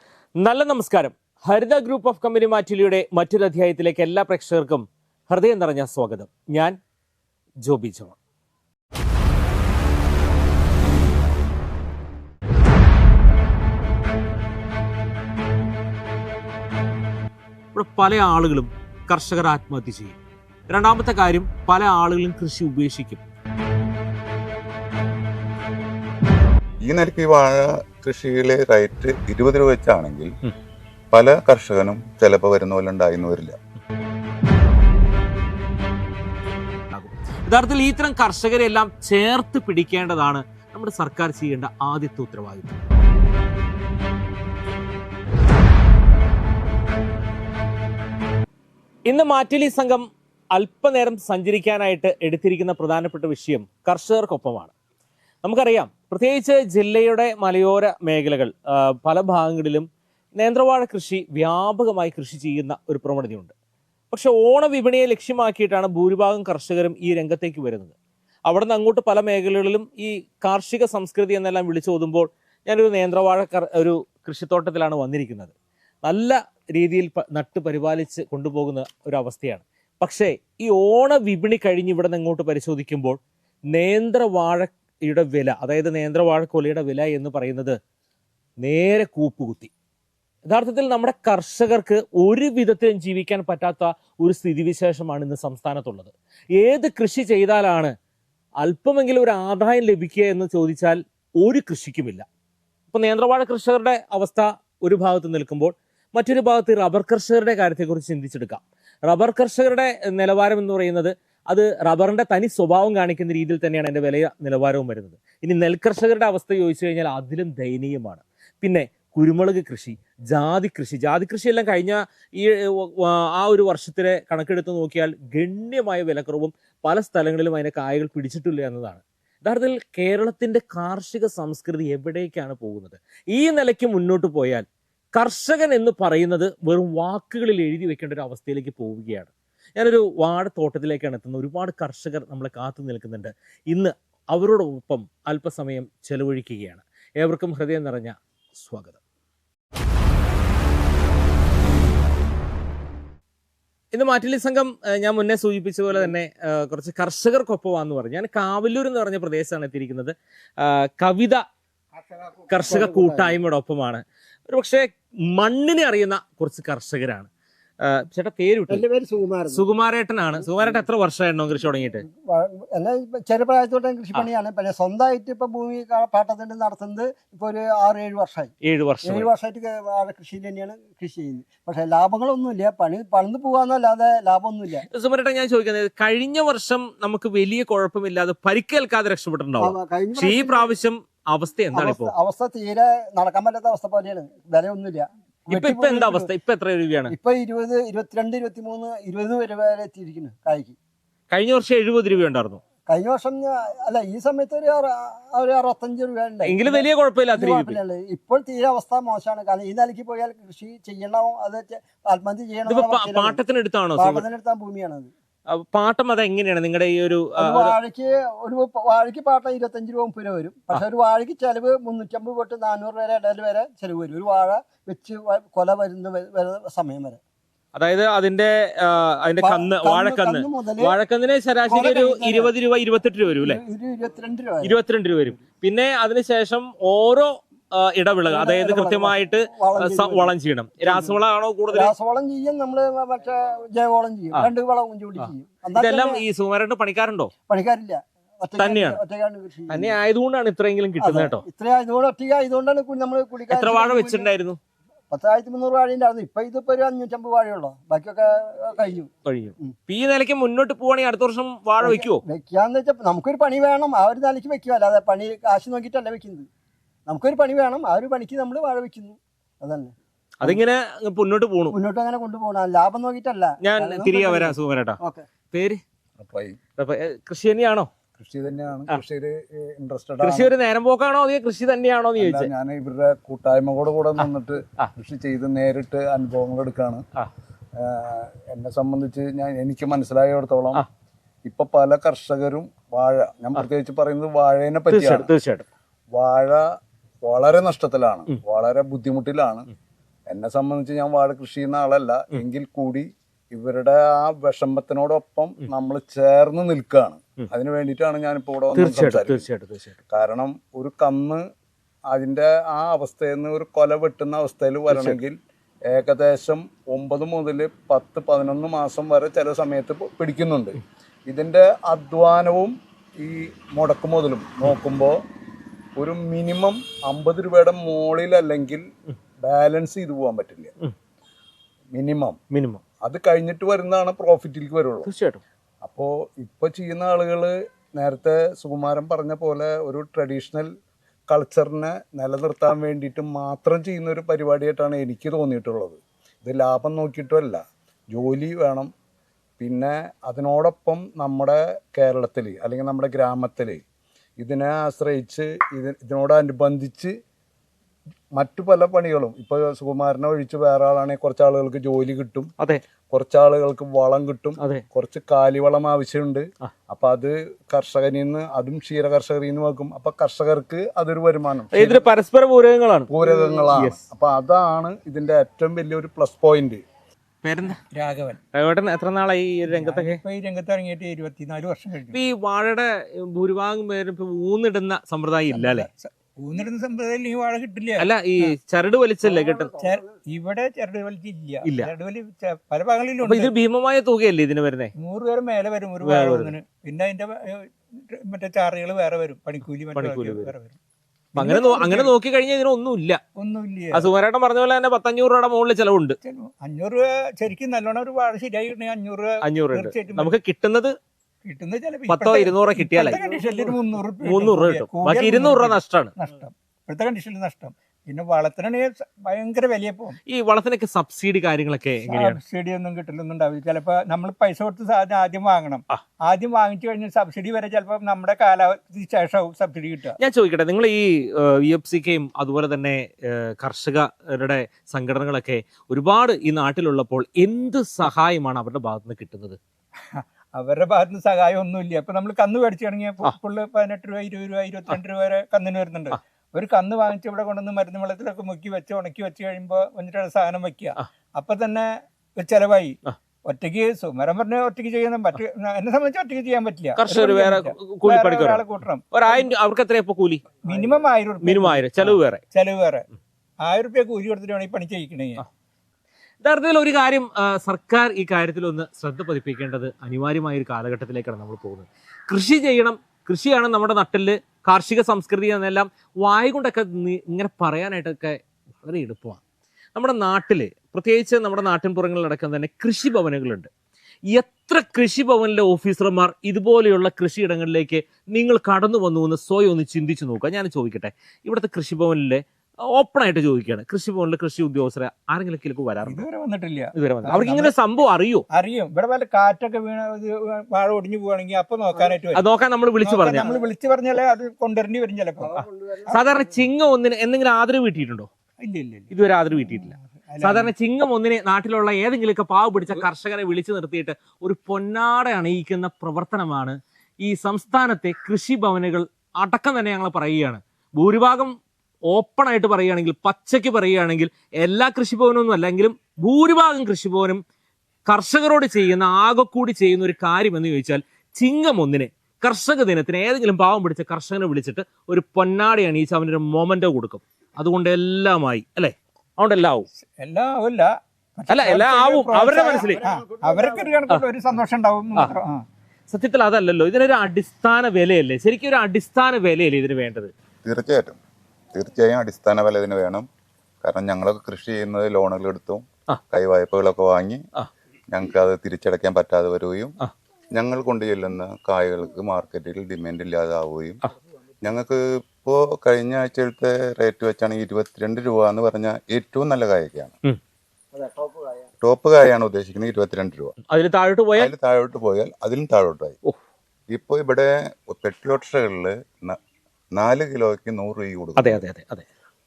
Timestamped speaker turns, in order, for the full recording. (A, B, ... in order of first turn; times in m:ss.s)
0:00.4-0:06.8 A
0:07.6-0:08.2 A
0:17.8-0:20.2 A
0:20.7-0:23.2 A
0:26.8-0:30.3 B
0:31.1-0:33.6 B
0:36.9-0:42.8 A
0:49.1-0:54.7 A
0:55.4-1:03.5 A
1:04.1-1:07.9 A
1:08.5-1:15.5 A
1:16.0-1:23.2 A
1:23.7-1:27.8 A
1:28.6-1:29.7 A
1:30.5-1:37.9 A
1:38.6-1:42.3 A
1:42.9-2:29.0 A
2:33.9-2:41.4 A
2:42.5-2:47.3 A
2:42.5-2:43.4 C
2:47.8-2:48.8 A
2:48.7-2:49.6 C
2:49.5-2:52.0 A
2:50.4-2:50.8 C
2:52.1-2:58.5 C
2:58.6-2:59.3 A
2:59.0-3:04.9 C
3:04.9-3:12.1 A
3:09.6-3:10.7 C
3:11.7-3:16.3 C
3:15.5-3:17.1 A
3:17.1-3:20.8 C
3:21.3-3:22.6 A
3:22.9-3:33.4 C
3:26.4-3:27.8 A
3:32.7-3:34.2 A
3:34.0-3:35.1 C
3:35.5-3:37.7 A
3:37.4-3:47.2 C
3:47.8-3:53.6 A
3:49.4-3:51.0 C
3:51.7-3:52.5 C
3:53.4-3:54.8 C
3:54.6-4:01.9 A
3:58.3-4:01.2 C
4:01.7-4:06.2 C
4:05.2-4:07.3 A
4:07.5-4:10.0 C
4:08.6-4:09.0 A
4:09.7-4:11.4 A
4:11.0-4:14.3 C
4:13.5-4:14.6 A
4:15.1-4:19.1 C
4:19.2-4:22.2 A
4:21.8-4:26.5 C
4:27.1-4:30.6 C
4:30.4-4:31.8 A
4:31.7-4:35.2 C
4:33.6-4:35.0 A
4:35.5-4:35.8 A
4:36.2-4:36.6 D
4:36.8-4:37.9 A
4:38.2-4:40.5 D
4:40.2-4:42.5 A
4:42.2-4:47.0 D
4:47.8-4:50.8 D
4:51.4-4:55.3 D
4:54.9-4:55.7 A
4:56.1-4:56.6 D
4:57.2-4:59.6 D
5:00.3-5:09.4 D
5:08.7-5:10.0 A
5:10.1-5:11.4 D
5:12.1-5:15.4 D
5:14.9-5:15.2 A
5:15.9-5:25.2 D
5:26.0-5:28.8 D
5:29.4-5:30.7 D
5:31.9-5:32.4 D
5:32.5-5:32.8 A
5:33.0-5:35.1 D
5:35.1-5:35.4 A
5:35.8-5:40.7 D
5:41.3-5:48.9 D
5:49.6-5:53.8 D
5:54.4-5:57.1 D
5:58.4-6:02.5 D
6:03.1-6:12.0 D
6:11.7-6:13.1 A
6:13.1-6:16.8 D
6:13.7-6:14.0 A
6:17.4-6:17.8 A
6:17.9-6:18.4 E
6:18.5-6:20.2 A
6:19.7-6:22.2 E
6:22.1-6:25.9 A
6:25.5-6:28.5 E
6:28.0-6:29.7 A
6:29.7-6:33.5 E
6:31.6-6:31.9 A
6:33.2-6:34.9 A
6:35.0-6:40.8 E
6:36.0-6:36.6 A
6:39.9-6:40.5 A
6:41.4-6:42.1 E
6:41.4-6:43.2 A
6:43.4-6:44.1 E
6:43.9-6:46.2 A
6:46.2-6:50.3 E
6:49.4-6:50.9 A
6:51.4-7:00.2 E
6:52.1-6:56.1 A
7:00.3-7:02.4 A
7:02.1-7:10.2 E
7:10.2-7:19.6 A
7:20.1-7:39.5 E
7:37.0-7:40.5 A
7:40.6-7:43.1 E
7:41.4-7:42.4 A
7:43.6-7:45.4 E
7:46.4-7:59.4 A
7:59.9-8:03.7 A
8:04.3-8:16.3 A
8:16.0-8:17.8 E
8:17.0-8:18.4 A
8:18.5-8:22.4 E
8:21.9-8:22.2 C
8:22.3-8:23.5 A
8:23.0-8:26.1 E
8:23.4-8:23.7 C
8:25.4-8:26.6 C
8:26.1-8:28.3 A
8:28.6-8:29.1 E
8:29.1-8:41.5 A
8:29.6-8:30.7 E
8:42.1-8:47.4 A
8:48.1-8:59.8 A
9:00.2-9:05.6 E
9:01.5-9:03.0 A
9:02.8-9:04.0 C
9:06.1-9:10.3 A
9:10.6-9:11.2 B
9:11.8-9:13.3 B
9:13.8-9:17.4 B
9:18.1-9:19.9 B
9:20.5-9:24.0 B
9:24.6-9:30.2 B
9:31.8-9:33.5 B
9:33.7-9:34.5 A
9:34.4-9:36.2 B
9:36.9-9:39.4 B
9:40.0-9:41.6 B
9:41.4-9:42.0 A